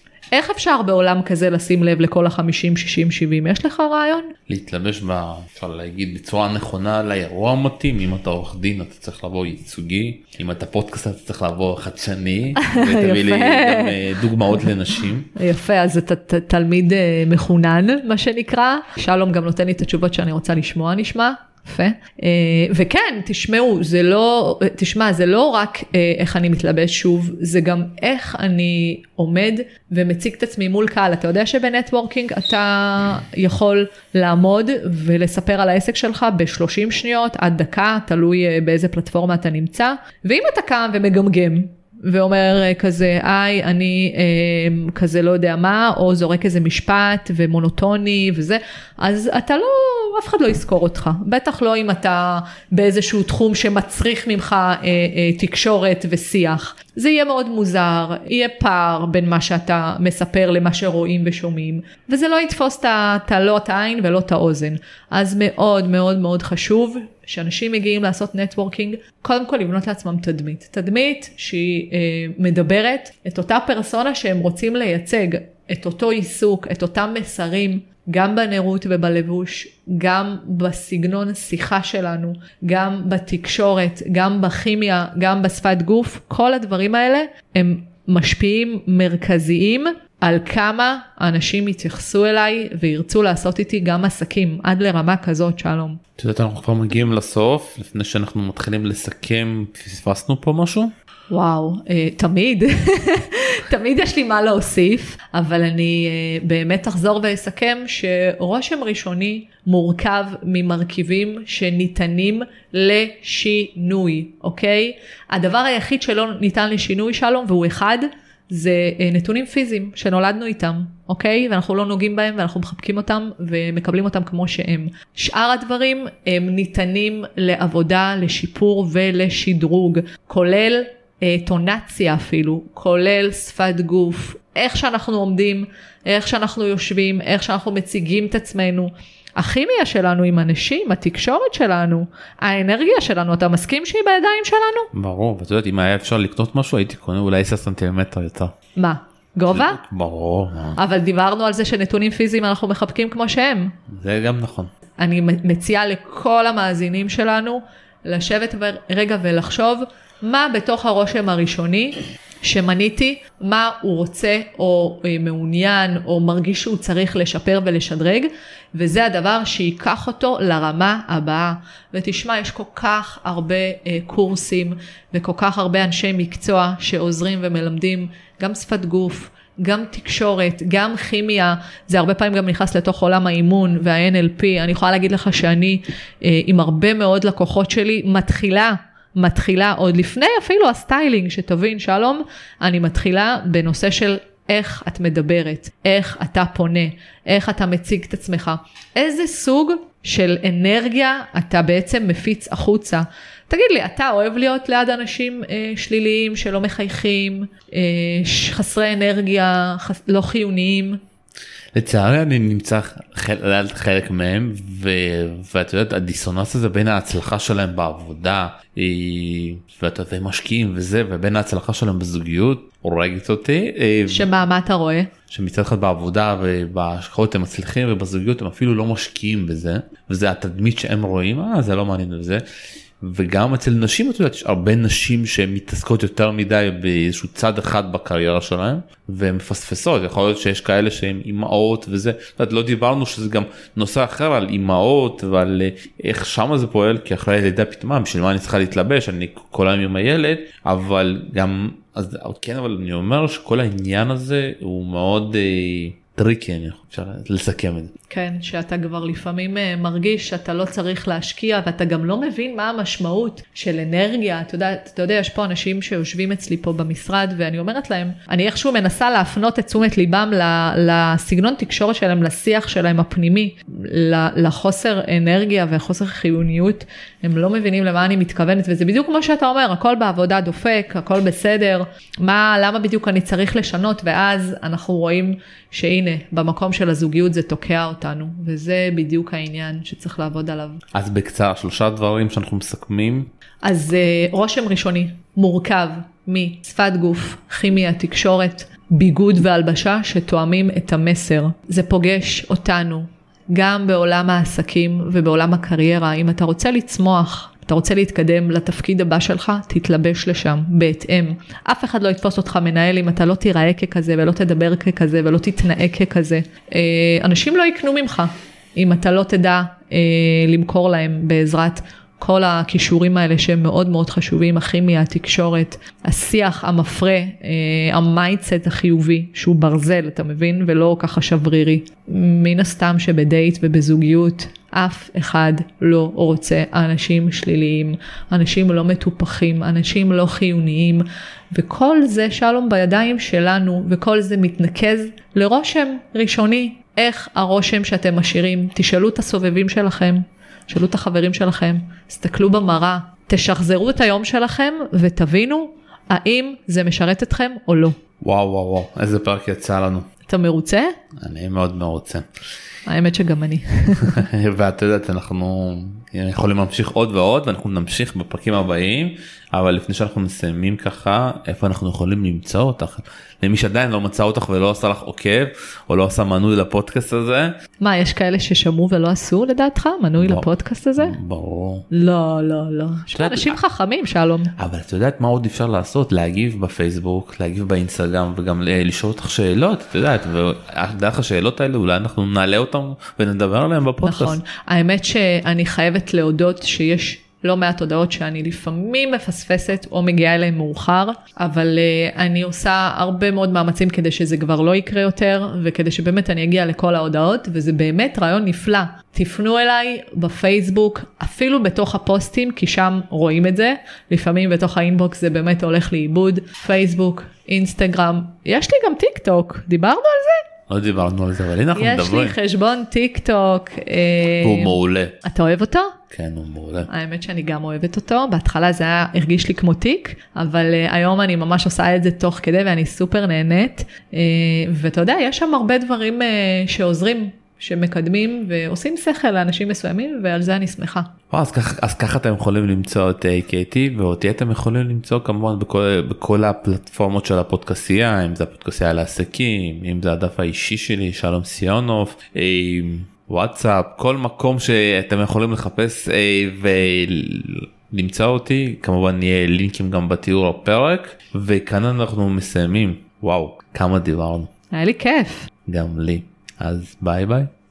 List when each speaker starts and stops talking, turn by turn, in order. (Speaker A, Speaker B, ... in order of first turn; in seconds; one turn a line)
Speaker A: 0.3-4.3
Speaker B: 4.5-15.3
Speaker A: 12.6-14.7
Speaker A: 15.3-96.0
Speaker B: 96.2-100.9
Speaker A: 101.3-144.9
Speaker B: 144.9-148.6
Speaker A: 148.8-149.8
Speaker B: 149.5-150.8
Speaker A: 150.8-153.7
Speaker B: 153.9-154.7
Speaker A: 155.0-211.0
Speaker B: 211.8-224.3
Speaker A: 224.1-225.1
Speaker B: 225.3-232.4
Speaker B: 233.0-257.9
Speaker A: 258.1-290.8
Speaker B: 290.9-293.3
Speaker A: 293.6-358.0
Speaker B: 358.2-360.1
Speaker A: 360.3-360.9
Speaker B: 361.2-362.2
Speaker A: 362.9-364.2
Speaker B: 364.0-377.5
Speaker A: 377.8-381.2
Speaker B: 380.2-380.5
Speaker B: 381.0-381.9
Speaker A: 381.9-384.5
Speaker B: 383.1-383.6
Speaker B: 384.6-394.4
Speaker A: 394.0-420.5
Speaker B: 420.7-422.4
Speaker A: 421.8-426.0
Speaker B: 424.4-425.2
Speaker B: 426.1-426.9
Speaker A: 426.9-441.1
Speaker B: 441.3-464.5
Speaker A: 464.7-465.5
Speaker B: 465.7-467.5